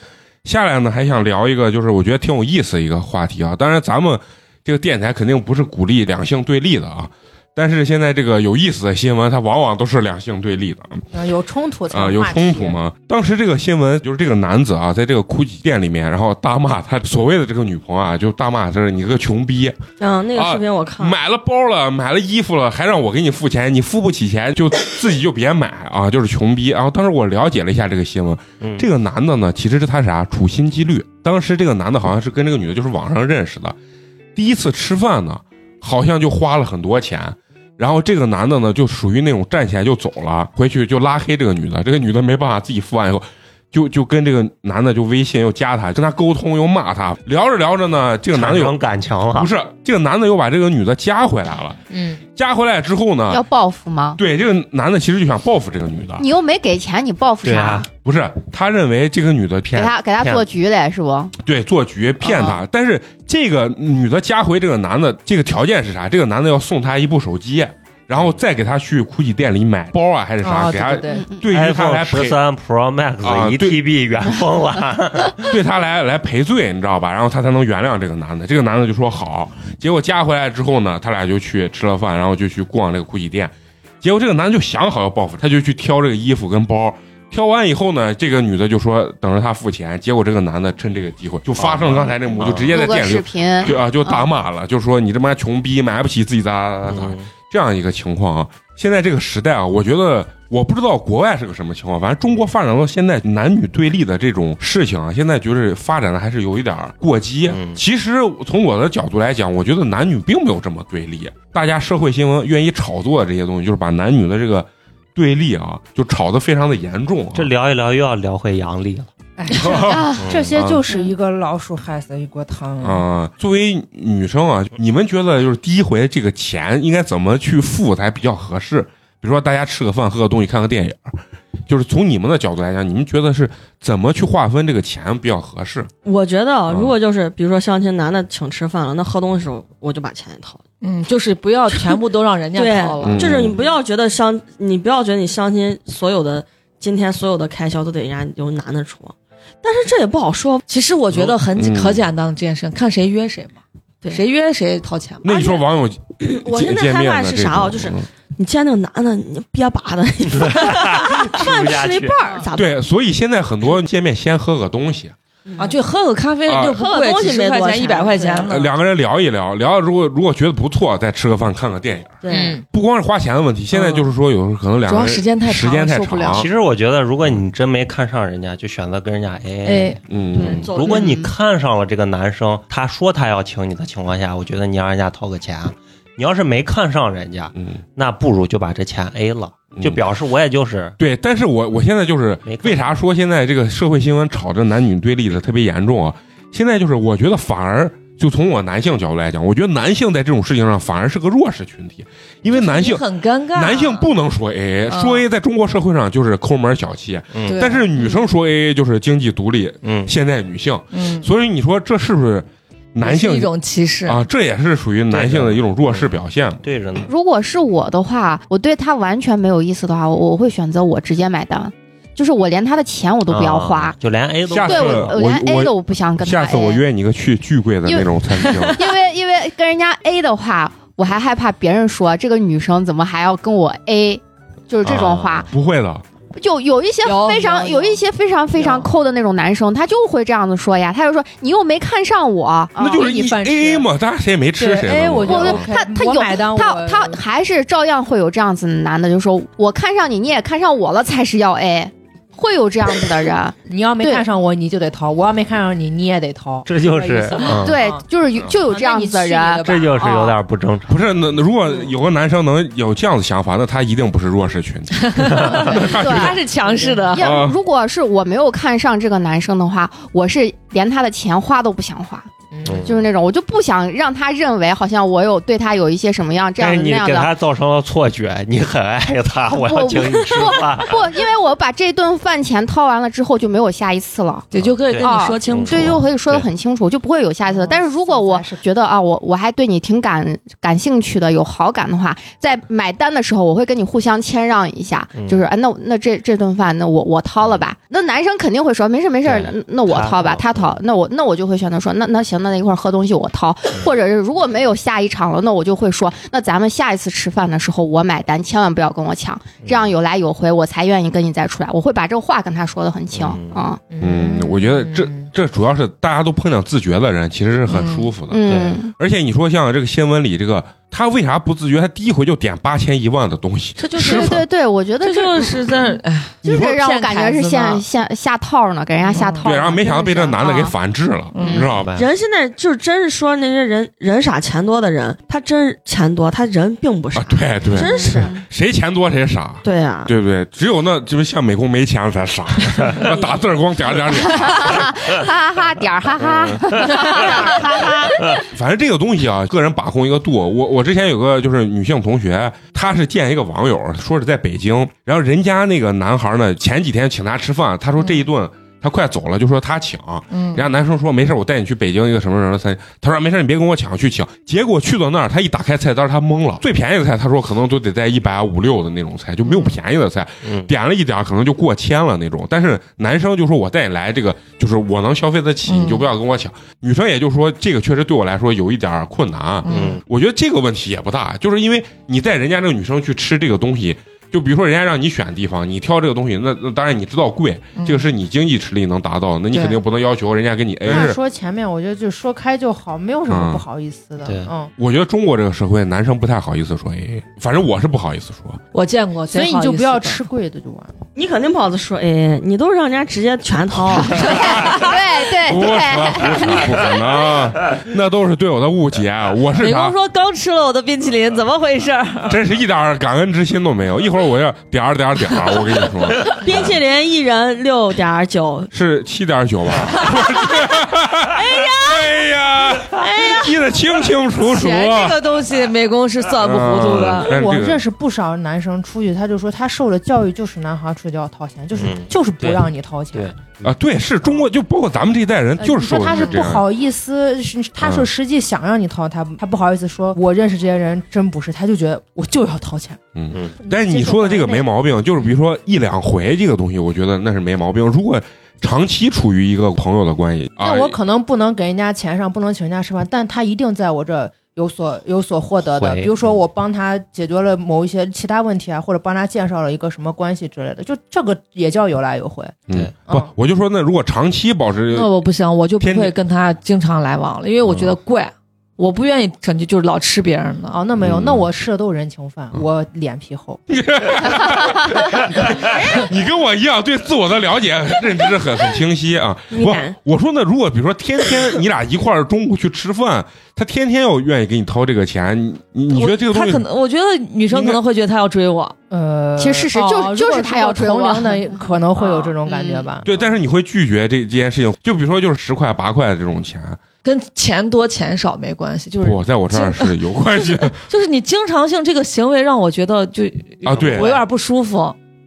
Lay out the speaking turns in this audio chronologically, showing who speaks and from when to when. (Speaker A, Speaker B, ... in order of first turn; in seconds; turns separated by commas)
Speaker A: 0.4-11.0, Speaker B: 11.1-12.8, Speaker A: 11.9-19.8, Speaker C: 20.0-21.1, Speaker A: 20.3-33.8, Speaker D: 28.6-28.9, Speaker A: 34.4-48.8, Speaker D: 48.3-49.5, Speaker A: 49.3-53.4, Speaker B: 51.9-52.2, Speaker E: 53.3-54.2, Speaker A: 54.2-56.2, Speaker E: 56.2-57.9, Speaker D: 57.4-57.9, Speaker A: 58.0-59.9, Speaker D: 59.6-60.5, Speaker E: 59.7-61.3, Speaker A: 61.4-72.4, Speaker B: 70.4-71.2, Speaker D: 71.5-75.5, Speaker A: 73.2-73.8, Speaker A: 75.4-117.5, Speaker D: 91.6-92.7, Speaker E: 92.7-94.3, Speaker D: 96.8-97.2, Speaker D: 107.5-107.8, Speaker D: 117.3-119.1, Speaker B: 119.4-123.0, Speaker A: 119.5-120.8, Speaker E: 119.9-120.2, Speaker D: 120.2-120.6, Speaker A: 122.8-135.9, Speaker C: 136.0-140.6, Speaker A: 136.7-136.9, Speaker F: 140.8-143.3, Speaker C: 142.5-150.6, Speaker A: 143.0-143.6, Speaker F: 150.7-153.6, Speaker A: 151.1-152.0, Speaker F: 154.1-155.4, Speaker A: 155.2-158.1, Speaker C: 156.3-162.7, Speaker D: 160.5-162.2, Speaker A: 162.5-165.1, Speaker C: 165.4-165.8, Speaker F: 165.6-168.7, Speaker A: 166.5-166.8, Speaker C: 166.7-168.5, Speaker A: 168.4-176.5, Speaker C: 172.2-172.6, Speaker B: 172.3-172.6, Speaker F: 173.7-174.1, Speaker F: 174.8-176.4, Speaker D: 176.3-180.0, Speaker F: 179.6-180.0, Speaker A: 180.1-180.7, Speaker C: 180.3-181.2, Speaker D: 180.7-191.0, Speaker E: 180.8-181.3, Speaker A: 189.8-190.0, Speaker A: 191.0-213.5, Speaker D: 192.4-192.8, Speaker F: 202.5-204.1, Speaker F: 204.9-205.2, Speaker F: 207.5-207.9, Speaker D: 209.8-210.1, Speaker F: 210.9-211.3, Speaker F: 213.0-214.2, Speaker A: 214.1-216.6, Speaker D: 215.1-217.1, Speaker E: 217.1-223.9, Speaker D: 223.3-225.2, Speaker A: 224.5-228.8, Speaker E: 224.6-226.8, Speaker E: 227.8-235.5, Speaker D: 234.8-235.5, Speaker A: 235.5-236.0, Speaker E: 236.3-243.1, Speaker F: 237.0-237.7, Speaker A: 242.8-245.7, Speaker B: 242.8-243.9, Speaker B: 244.6-247.2, Speaker E: 245.2-254.2, Speaker B: 253.7-258.0, Speaker D: 256.7-257.7, Speaker E: 257.6-260.3, Speaker B: 258.6-260.3, Speaker D: 259.6-261.0, Speaker A: 260.9-266.4, Speaker F: 265.1-267.2, Speaker E: 265.9-266.4, Speaker B: 266.6-267.1, Speaker E: 267.1-272.3, Speaker A: 267.2-267.6, Speaker B: 272.5-272.9, Speaker D: 272.6-273.0, Speaker E: 272.8-277.3, Speaker D: 276.6-281.0, Speaker E: 279.5-313.8, Speaker F: 284.5-286.0, Speaker D: 284.6-286.5, Speaker B: 287.4-288.6, Speaker D: 295.1-295.4, Speaker D: 299.2-300.8, Speaker D: 309.6-309.9, Speaker D: 313.1-313.6, Speaker B: 313.9-315.3, Speaker A: 314.0-324.4, Speaker F: 317.7-318.1, Speaker E: 318.3-318.9, Speaker D: 318.4-318.8, Speaker F: 323.8-324.4, Speaker E: 324.0-325.7, Speaker F: 325.0-327.8, Speaker E: 326.4-330.7, Speaker B: 329.1-329.4, Speaker F: 329.1-329.4, Speaker A: 329.4-331.9, Speaker F: 331.3-331.7, Speaker E: 331.4-331.7, Speaker D: 331.7-332.1, Speaker C: 331.9-338.3, Speaker A: 337.1-345.1, Speaker E: 337.8-338.4, Speaker C: 339.6-340.1, Speaker C: 343.0-343.3, Speaker E: 344.4-348.4, Speaker A: 346.3-346.6, Speaker C: 346.8-348.1, Speaker A: 348.5-391.2, Speaker F: 360.3-360.6, Speaker D: 370.4-370.7, Speaker F: 375.7-376.1, Speaker F: 379.6-380.0, Speaker D: 379.7-380.0, Speaker F: 387.8-388.1, Speaker F: 389.5-389.8, Speaker B: 390.9-394.7, Speaker A: 393.3-393.6, Speaker D: 394.2-394.5, Speaker A: 394.8-398.6, Speaker F: 398.7-400.2, Speaker B: 399.3-400.9, Speaker C: 401.1-404.8, Speaker E: 404.2-406.7, Speaker A: 405.3-409.9, Speaker F: 409.6-412.4, Speaker A: 412.3-416.7, Speaker C: 416.3-418.7, Speaker A: 418.7-425.2, Speaker C: 421.3-422.1, Speaker C: 422.9-423.8, Speaker F: 424.4-427.3, Speaker A: 426.4-427.8, Speaker B: 427.3-433.3, Speaker D: 431.7-433.7, Speaker A: 433.6-436.6, Speaker B: 435.6-443.0, Speaker F: 436.1-436.4, Speaker A: 437.8-438.1, Speaker A: 443.1-451.0, Speaker B: 443.6-444.6, Speaker B: 450.6-463.3, Speaker D: 455.7-456.1, Speaker A: 462.7-465.1, Speaker F: 464.9-470.8, Speaker A: 465.8-466.1, Speaker A: 467.6-467.9, Speaker B: 470.7-473.6, Speaker A: 471.0-471.4, Speaker A: 473.7-486.6, Speaker C: 479.5-479.9, Speaker F: 485.9-488.7, Speaker A: 487.5-487.8, Speaker B: 488.9-493.1, Speaker E: 489.4-491.6, Speaker E: 492.2-492.8, Speaker A: 493.0-496.8, Speaker F: 497.0-504.9, Speaker A: 499.0-500.8, Speaker A: 503.6-504.2, Speaker D: 503.8-504.1